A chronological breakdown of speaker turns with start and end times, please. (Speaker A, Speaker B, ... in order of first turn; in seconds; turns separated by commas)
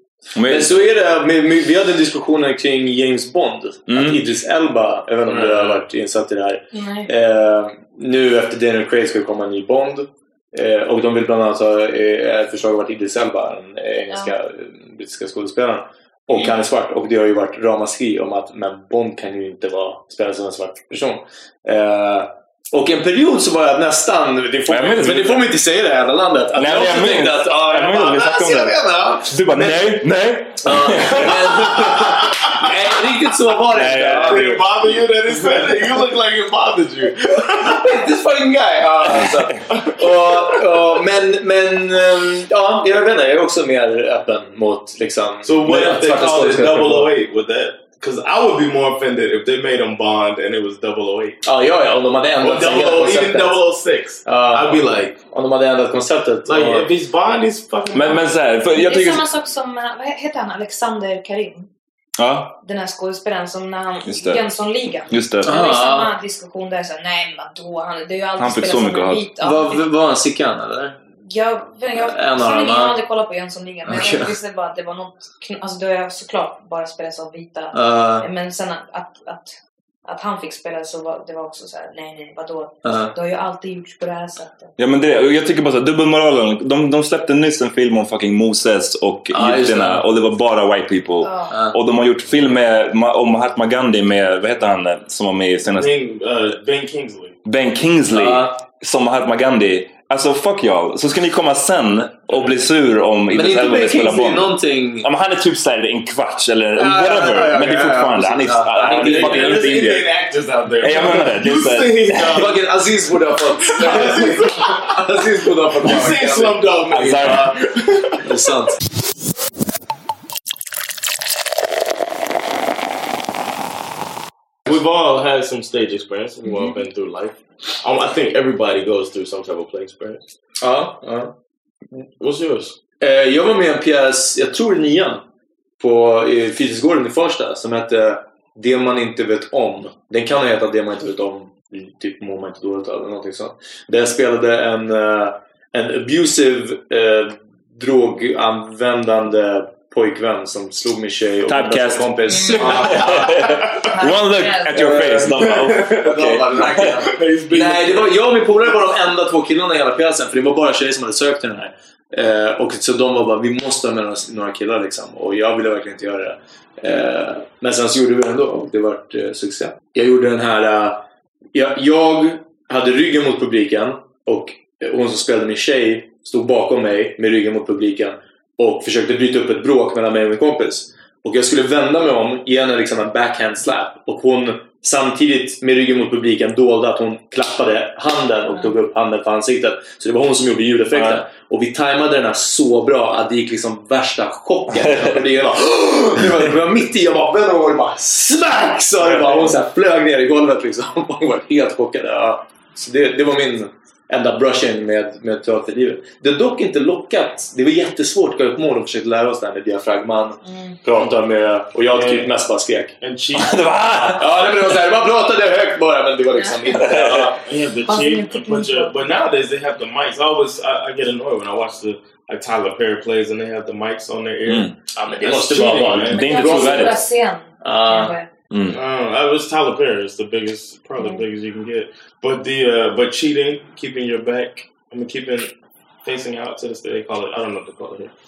Speaker A: 0.3-0.7, Speaker B: 0.4-29.8, Speaker A: 3.9-4.2, Speaker C: 5.2-5.8, Speaker D: 6.7-7.1, Speaker A: 24.7-25.4, Speaker A: 26.6-32.2, Speaker B: 30.6-34.6, Speaker C: 31.7-32.8, Speaker A: 33.7-34.6, Speaker C: 34.2-38.1, Speaker B: 37.5-47.1, Speaker A: 39.0-39.6, Speaker C: 39.7-40.2, Speaker C: 45.4-51.4, Speaker B: 51.4-53.6, Speaker C: 52.4-55.2, Speaker B: 54.2-56.9, Speaker C: 56.5-58.3, Speaker A: 57.9-59.2, Speaker D: 58.6-61.7, Speaker A: 62.2-62.6, Speaker D: 62.6-69.8, Speaker A: 64.1-64.4, Speaker A: 65.1-65.6, Speaker B: 65.4-66.1, Speaker A: 68.4-69.3, Speaker B: 69.4-71.0, Speaker D: 71.2-84.7, Speaker B: 72.0-73.0, Speaker B: 73.9-74.3, Speaker B: 77.7-78.3, Speaker B: 82.8-83.1, Speaker A: 84.8-95.9, Speaker B: 89.3-90.1, Speaker D: 91.2-91.5, Speaker B: 91.5-91.8, Speaker C: 95.7-97.4, Speaker A: 97.4-110.1, Speaker B: 98.1-98.6, Speaker B: 103.3-105.1, Speaker B: 106.8-109.7, Speaker C: 108.8-112.6, Speaker A: 110.8-112.5, Speaker B: 112.3-116.6, Speaker C: 113.7-118.5, Speaker A: 116.9-117.5, Speaker B: 118.2-118.8, Speaker C: 124.7-130.2, Speaker D: 126.4-126.8, Speaker B: 130.6-131.3, Speaker C: 132.2-132.8, Speaker B: 133.0-135.2, Speaker B: 135.8-153.9, Speaker A: 151.5-156.9, Speaker D: 152.3-154.8, Speaker B: 154.7-171.0, Speaker C: 156.8-158.1, Speaker B: 171.5-213.0, Speaker A: 190.9-191.2, Speaker A: 194.8-195.1, Speaker D: 210.4-210.8, Speaker C: 211.9-212.3, Speaker C: 213.0-213.6, Speaker A: 213.3-214.2, Speaker B: 214.0-217.4, Speaker A: 216.7-217.3, Speaker C: 217.4-226.2, Speaker D: 217.9-218.9, Speaker A: 224.4-224.7, Speaker B: 224.9-227.0, Speaker A: 226.0-227.0, Speaker D: 226.1-228.3, Speaker B: 227.6-228.1, Speaker A: 228.5-228.8, Speaker C: 228.7-235.5, Speaker C: 236.0-238.1